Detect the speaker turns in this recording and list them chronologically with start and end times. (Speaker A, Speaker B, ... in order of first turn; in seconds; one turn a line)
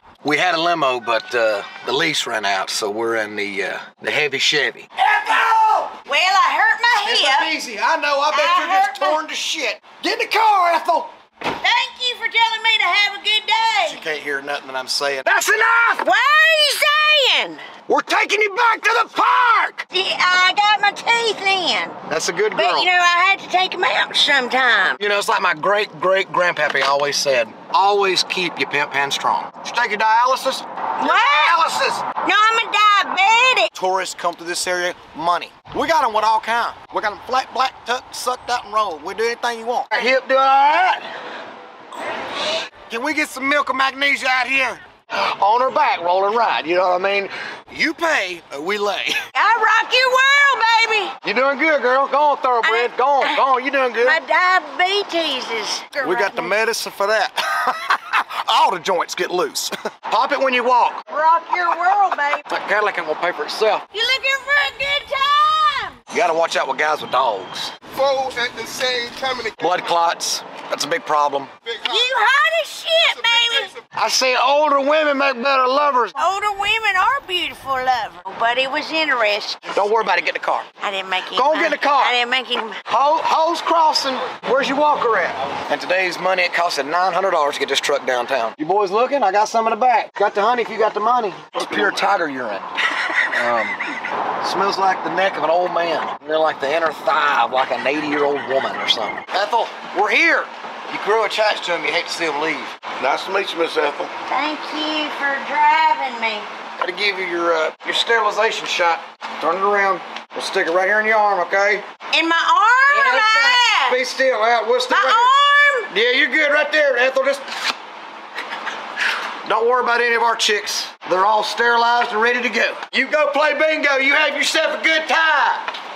Speaker A: 0.2-5.9
Speaker B: 6.0-7.5
Speaker A: 7.0-11.1
Speaker B: 8.3-9.2
Speaker B: 11.6-14.0
Speaker A: 13.8-16.0
Speaker B: 16.0-17.6
Speaker A: 17.9-19.8
Speaker B: 19.9-21.9
Speaker A: 22.1-22.9
Speaker B: 22.5-25.0
Speaker A: 25.0-32.0
Speaker B: 31.0-31.6
Speaker B: 32.2-33.7
Speaker A: 33.7-41.0
Speaker A: 42.9-49.2
Speaker B: 49.3-51.1
Speaker A: 51.2-54.2
Speaker B: 52.6-53.4
Speaker B: 54.0-56.5
Speaker A: 56.0-61.0
Speaker B: 61.1-62.4
Speaker A: 62.5-63.8
Speaker B: 63.9-66.0
Speaker A: 66.1-67.7
Speaker C: 67.9-69.7
Speaker A: 69.6-71.5
Speaker C: 71.6-72.1
Speaker B: 71.8-73.8
Speaker C: 73.2-73.7
Speaker A: 73.9-76.2
Speaker B: 76.2-79.7
Speaker A: 79.7-80.7
Speaker B: 80.8-82.8
Speaker A: 81.3-82.1
Speaker A: 82.9-92.7
Speaker A: 93.3-93.8
Speaker A: 94.4-102.7
Speaker C: 103.0-104.1
Speaker B: 104.3-106.5
Speaker A: 106.8-111.8
Speaker B: 112.1-114.0
Speaker A: 112.8-115.3
Speaker B: 114.9-115.9
Speaker A: 115.9-117.7
Speaker A: 119.4-125.7